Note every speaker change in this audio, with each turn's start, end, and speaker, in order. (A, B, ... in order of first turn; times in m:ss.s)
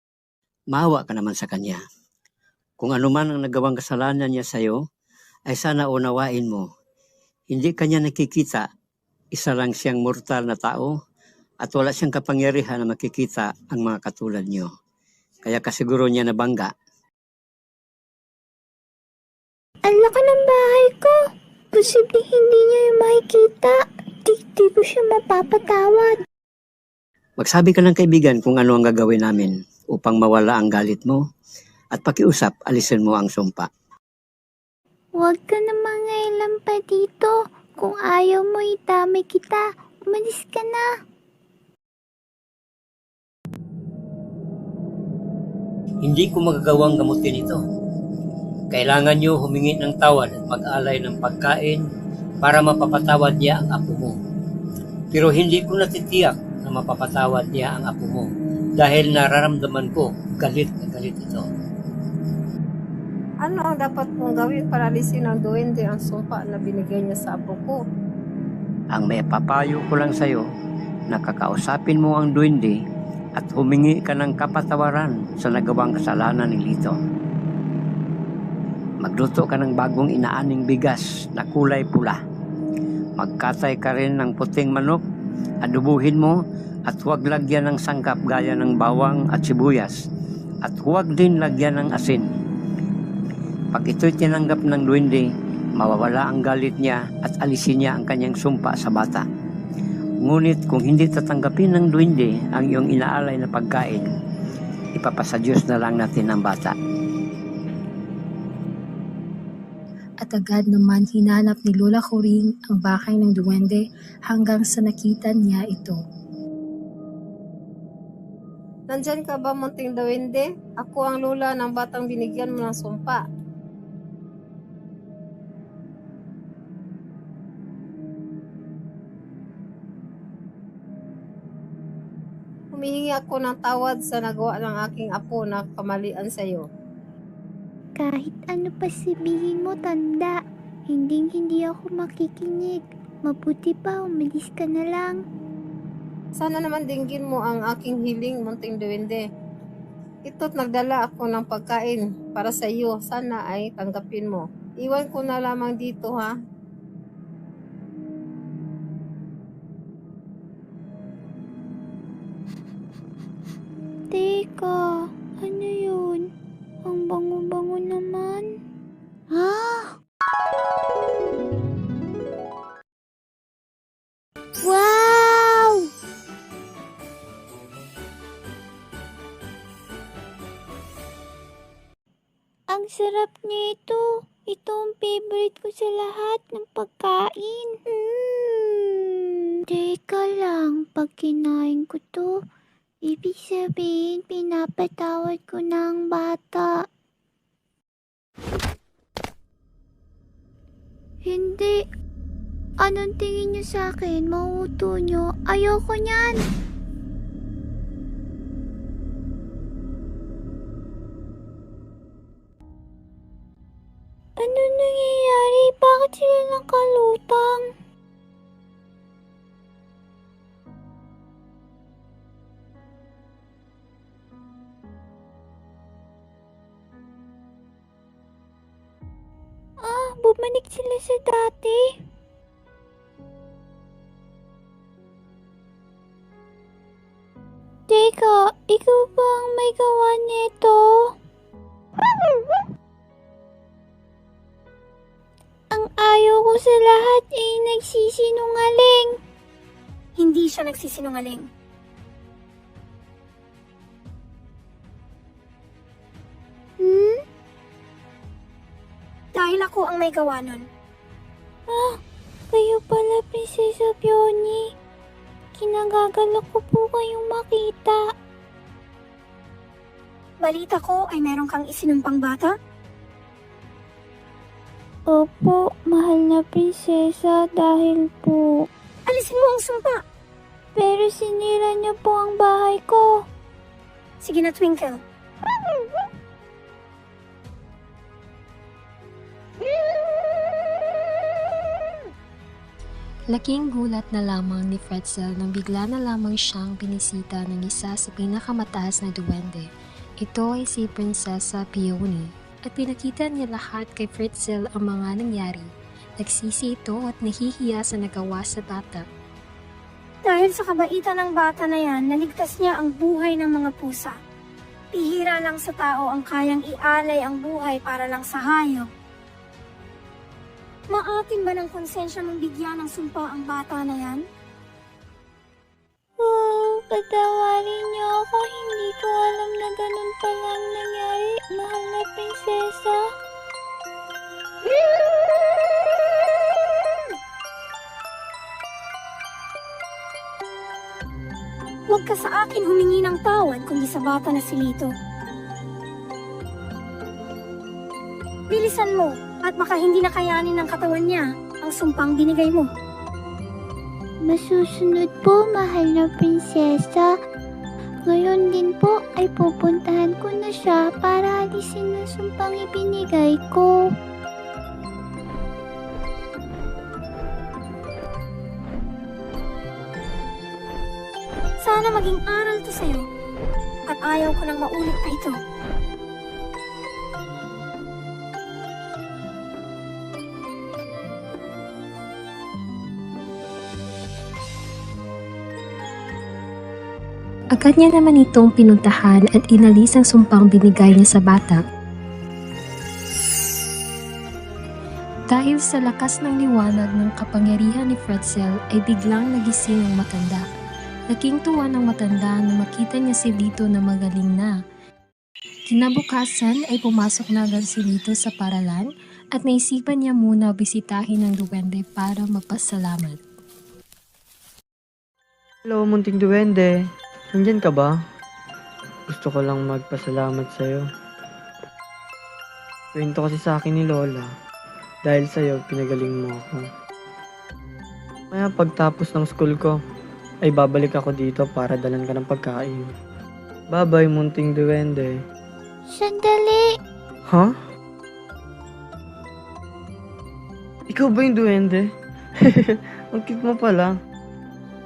0:00.7-0:01.8 A
0:02.8-0:04.8 A
0:05.5-0:06.7 A
0:07.5-0:08.7 A
0:09.4-0:10.9 A
0:11.6-0:14.7 A
0:15.4-0:16.7 A
0:19.8-0:21.1 B
0:21.7-0:26.1 B
0:27.4-0:31.2 A
0:31.9-0:33.7 A
0:35.2-0:40.8 B
0:46.0-0:47.6 A
0:48.7-0:51.8 A
0:52.4-0:54.1 A
0:55.1-0:58.3 A
0:58.8-1:01.4 A
1:03.4-1:07.8 C
1:08.9-1:10.4 A
1:11.1-1:12.8 A
1:13.4-1:16.9 A
1:19.0-1:22.2 A
1:23.2-1:25.0 A
1:25.6-1:26.4 A
1:26.9-1:30.0 A
1:30.6-1:32.2 A
1:33.7-1:35.2 A
1:35.8-1:39.2 A
1:40.2-1:44.1 A
1:44.9-1:46.7 A
1:50.2-1:56.0 D
1:58.9-2:03.2 C
2:12.7-2:16.7 C
2:18.0-2:20.4 B
2:20.9-2:25.2 B
2:26.4-2:29.2 C
2:30.2-2:36.3 C
2:44.1-2:46.3 B
2:46.8-2:48.5 B
2:49.3-2:50.0 B
2:54.6-2:55.9 B
3:02.7-3:12.4 B
3:13.0-3:16.9 B
3:21.2-3:21.8 B
3:22.8-3:26.4 B
3:34.4-3:37.7 B
3:49.8-3:52.0 B
3:57.9-4:01.2 B
4:05.7-4:09.2 B
4:10.2-4:11.5 E
4:16.8-4:17.2 B
4:19.3-4:20.6 E
4:21.7-4:22.0 B
4:22.5-4:24.7 B
4:25.6-4:28.0 B
4:30.4-4:32.5 E
4:35.1-4:38.7 B
4:39.1-4:40.0 E
4:40.7-4:43.2 B
4:44.2-4:45.0 E
4:53.3-4:59.7 D
5:00.2-5:09.1 D
5:10.2-5:14.1 E
5:14.9-5:18.9 E
5:20.9-5:24.2 E
5:26.2-5:33.0 B
5:41.9-5:44.9 E
5:48.5-5:52.7 E
5:54.2-5:57.1 B
5:58.1-6:03.9 B
6:11.6-6:13.1 E
6:13.9-6:15.4 E
6:27.6-6:31.6 D
6:35.3-6:40.4 D
6:41.1-6:44.5 D
6:45.7-6:53.2 D
6:55.6-6:58.0 F
6:59.1-7:00.9 F
7:02.9-7:04.3 F
7:05.0-7:06.7 F
7:08.3-7:09.8 F
7:10.4-7:12.9 F
7:13.7-7:15.2 F
7:15.9-7:16.7 B
7:17.3-7:17.6 F
7:20.9-7:21.9 F
7:22.4-7:23.9 F